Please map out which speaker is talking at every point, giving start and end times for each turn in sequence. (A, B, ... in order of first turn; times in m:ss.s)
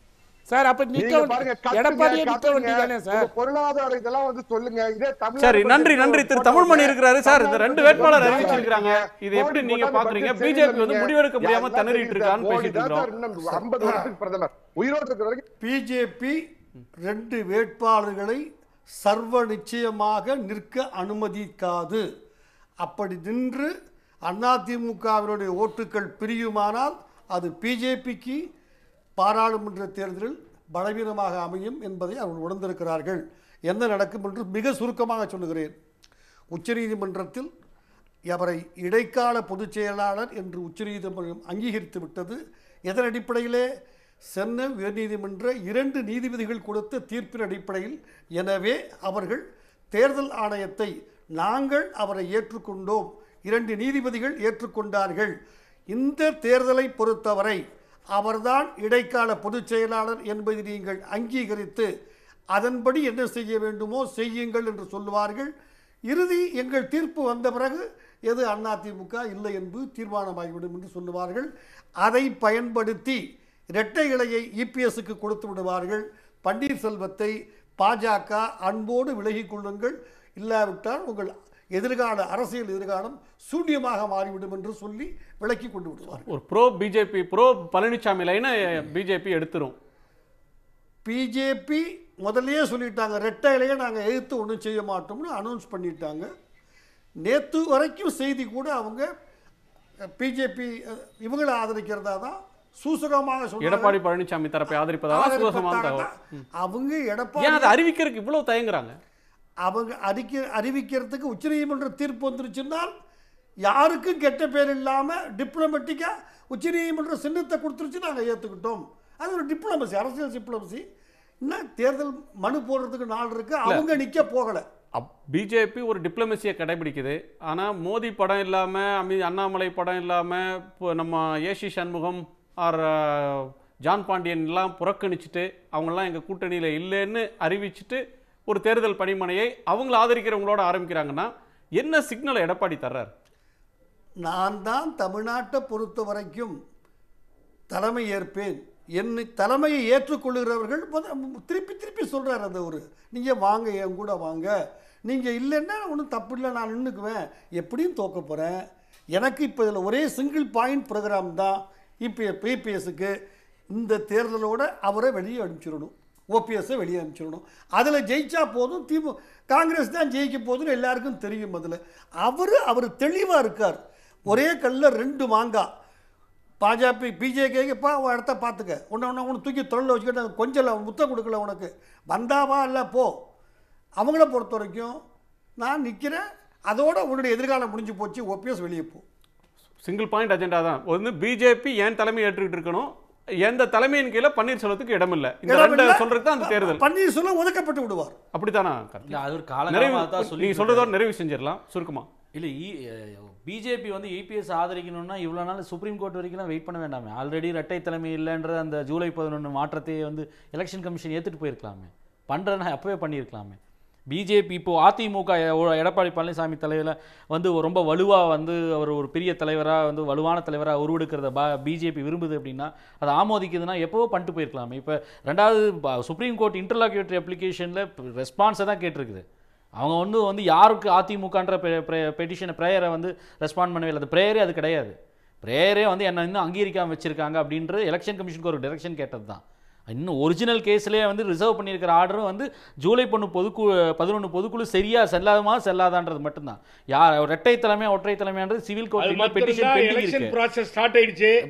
0:00.5-0:03.3 A
0:01.0-0:15.4 B
0:05.4-0:13.1 C
0:07.9-0:08.5 A
0:15.6-0:16.4 D
0:17.0-0:18.4 D
0:19.0-0:22.0 D
0:22.8-0:23.7 D
0:24.2-0:28.4 D
0:29.2-0:35.7 D
0:36.5-0:37.5 D
0:38.3-0:43.7 D
0:44.3-0:55.3 D
0:55.9-0:57.6 D
0:58.1-1:01.9 D
1:02.5-1:05.5 D
1:06.1-1:11.5 D
1:12.0-1:13.2 D
1:13.8-1:26.2 D
1:26.3-1:29.7 C
1:31.0-1:36.3 D
1:37.2-1:39.0 D
1:40.2-1:44.0 D
1:43.6-1:46.4 C
1:45.1-1:47.8 D
1:47.4-1:48.9 C
1:49.6-1:52.9 D
1:53.7-2:00.8 D
2:01.4-2:04.6 D
2:05.0-2:23.1 C
2:24.2-2:26.5 D
2:27.7-2:34.5 D
2:35.0-2:38.6 D
2:39.1-2:43.1 D
2:43.7-2:55.7 D
2:56.6-3:03.1 D
3:04.0-3:04.9 D
3:05.6-3:09.0 D
3:09.8-3:12.9 C
3:13.4-3:16.8 C
3:15.5-3:18.2 D
3:18.3-3:22.1 C
3:19.1-3:20.9 E
3:22.3-3:33.6 E
3:34.1-3:49.2 E
3:49.8-4:10.3 E
4:09.0-4:11.4 F